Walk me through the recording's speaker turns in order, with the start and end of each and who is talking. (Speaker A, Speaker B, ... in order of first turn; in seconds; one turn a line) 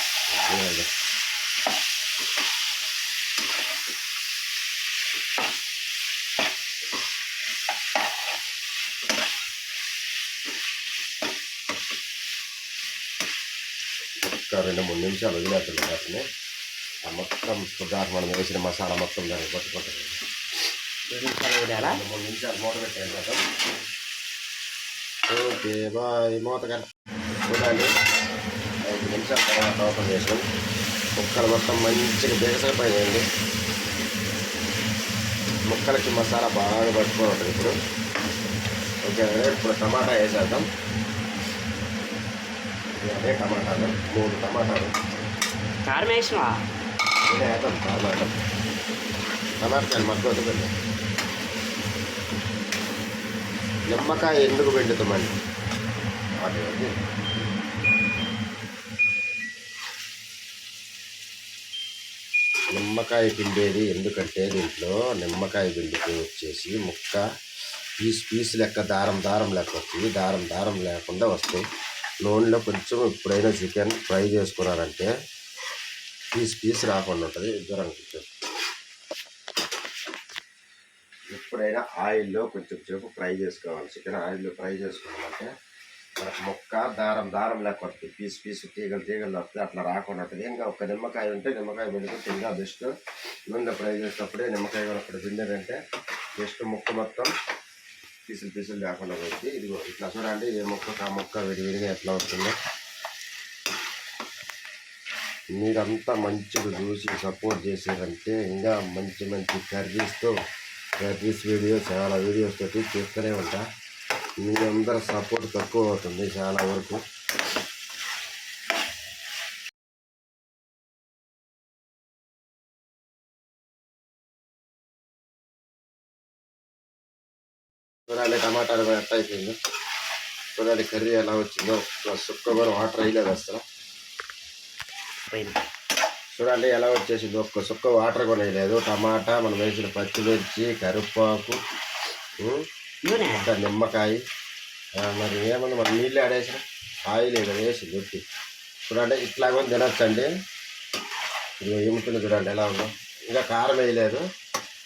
Speaker A: 0.3-0.9
Speaker A: 14.3-16.2
Speaker A: 17.0-20.2
Speaker B: 21.1-22.0
Speaker A: 21.8-23.4
Speaker A: 25.3-26.8
Speaker A: 27.5-27.9
Speaker A: 28.9-30.4
Speaker A: 31.1-33.2
Speaker A: 35.7-37.7
Speaker A: 39.0-40.6
Speaker A: 43.0-44.9
Speaker B: 45.8-46.5
Speaker A: 47.3-48.3
Speaker A: 49.6-50.7
Speaker A: 53.9-55.4
Speaker A: 56.4-56.9
Speaker A: 62.7-67.2
Speaker A: 68.0-71.6
Speaker A: 72.2-75.1
Speaker A: 76.3-78.3
Speaker A: 81.3-85.5
Speaker A: 86.2-92.9
Speaker A: 93.5-95.8
Speaker A: 96.4-97.3
Speaker A: 98.3-102.5
Speaker A: 105.5-110.3
Speaker A: 111.0-113.6
Speaker A: 114.4-117.0
Speaker A: 128.1-129.6
Speaker A: 130.6-133.6
Speaker B: 135.3-135.6
Speaker A: 136.3-141.6
Speaker A: 142.4-142.7
Speaker B: 143.0-143.5
Speaker A: 143.3-144.2
Speaker A: 145.0-148.2
Speaker A: 148.8-150.3
Speaker A: 151.6-154.2